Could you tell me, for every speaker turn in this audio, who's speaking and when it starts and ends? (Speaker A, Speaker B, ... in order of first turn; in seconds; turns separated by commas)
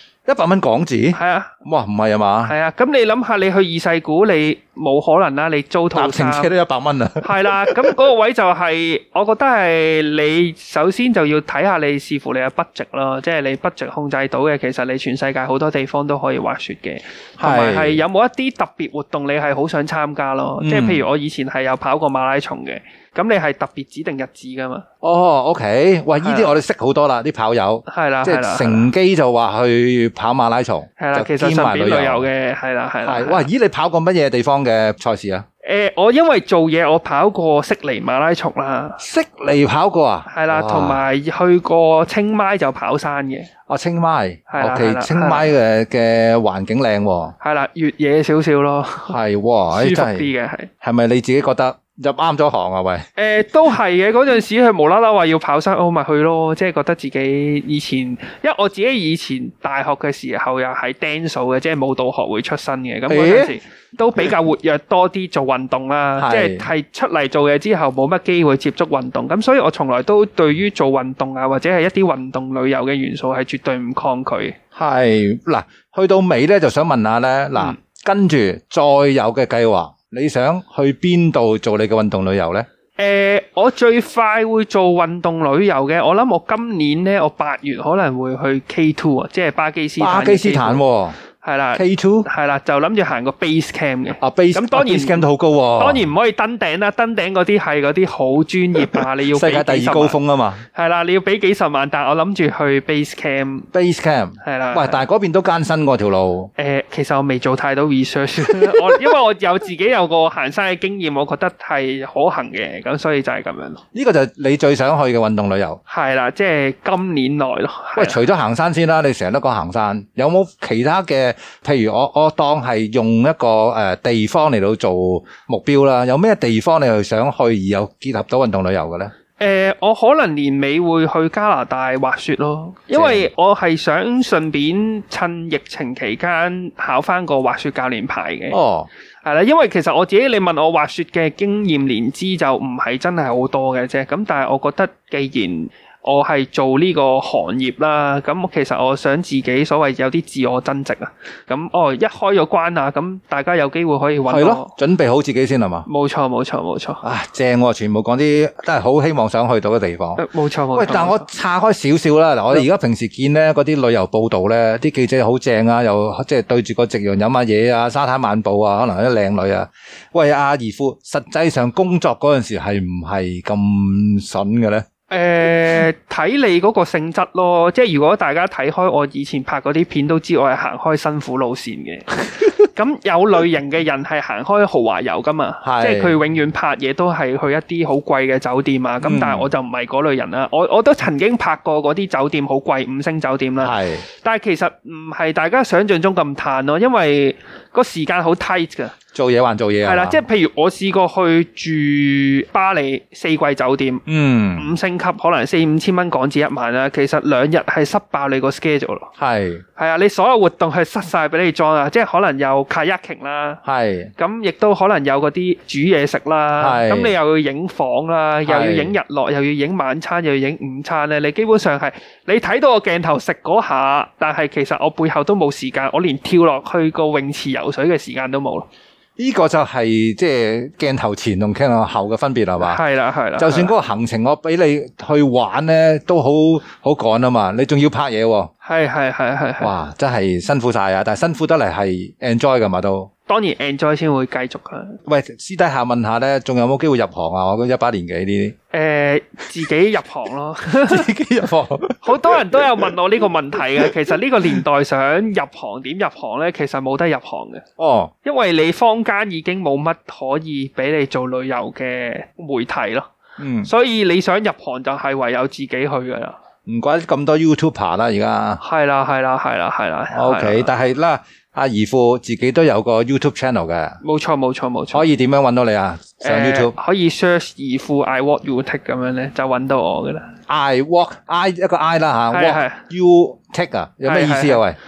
Speaker A: 0.3-2.5, Speaker B: 1.1-1.6, Speaker B: 2.5-6.5, Speaker A: 5.9-7.9, Speaker B: 7.2-24.9, Speaker A: 17.4-18.0, Speaker A: 20.6-21.1, Speaker A: 25.0-32.3, Speaker B: 26.2-26.5, Speaker B: 27.9-28.9, Speaker B: 31.0-33.5, Speaker A: 33.0-35.5, Speaker B: 35.6-39.0, Speaker A: 39.0-41.0, Speaker B: 40.3-43.5, Speaker A: 43.7-47.4, Speaker B: 44.5-45.5, Speaker B: 47.4-49.2, Speaker A: 49.1-50.3, Speaker B: 49.7-50.7, Speaker A: 50.8-53.1, Speaker B: 53.2-74.6, Speaker A: 63.1-63.5, Speaker A: 66.2-66.7, Speaker A: 74.8-82.7, Speaker B: 83.0-90.8, Speaker A: 90.0-91.2, Speaker B: 91.4-95.2, Speaker A: 91.8-92.3, Speaker A: 94.2-96.0, Speaker B: 95.8-100.2, Speaker A: 98.9-100.6, Speaker B: 100.7-103.7, Speaker A: 103.7-106.5, Speaker B: 104.4-105.0, Speaker B: 106.6-113.8, Speaker A: 108.4-109.0, Speaker A: 113.9-115.8, Speaker B: 115.9-118.2, Speaker A: 118.0-129.1, Speaker B: 129.4-138.6, Speaker A: 132.9-133.3, Speaker A: 138.5-138.9, Speaker B: 139.2-154.8, Speaker A: 154.3-155.9, Speaker B: 155.9-157.0, Speaker A: 157.0-174.8, Speaker B: 160.2-161.3, Speaker B: 175.1-199.0, Speaker A: 185.6-186.2, Speaker A: 189.0-189.5, Speaker A: 193.6-194.1, Speaker A: 199.1-200.2, Speaker B: 199.8-204.0, Speaker A: 204.1-204.7, Speaker B: 204.6-209.1, Speaker A: 209.2-209.6, Speaker B: 209.8-213.6, Speaker A: 213.7-214.1, Speaker B: 214.2-228.7, Speaker A: 216.6-217.1, Speaker A: 218.5-218.9, Speaker A: 229.2-232.8, Speaker B: 232.6-233.7, Speaker A: 233.4-238.5, Speaker B: 238.6-239.7, Speaker A: 239.6-243.1, Speaker B: 243.3-245.0, Speaker A: 245.1-248.6, Speaker B: 248.7-251.1, Speaker A: 250.9-252.9, Speaker B: 252.0-257.6, Speaker A: 257.8-258.1, Speaker B: 258.2-263.1, Speaker A: 263.4-263.7, Speaker B: 263.6-266.4, Speaker A: 266.7-268.6, Speaker B: 268.6-270.7, Speaker A: 270.1-274.0, Speaker B: 274.0-275.1, Speaker A: 274.9-276.7, Speaker B: 276.2-280.3, Speaker A: 280.5-284.8, Speaker B: 282.3-282.8, Speaker B: 284.1-284.6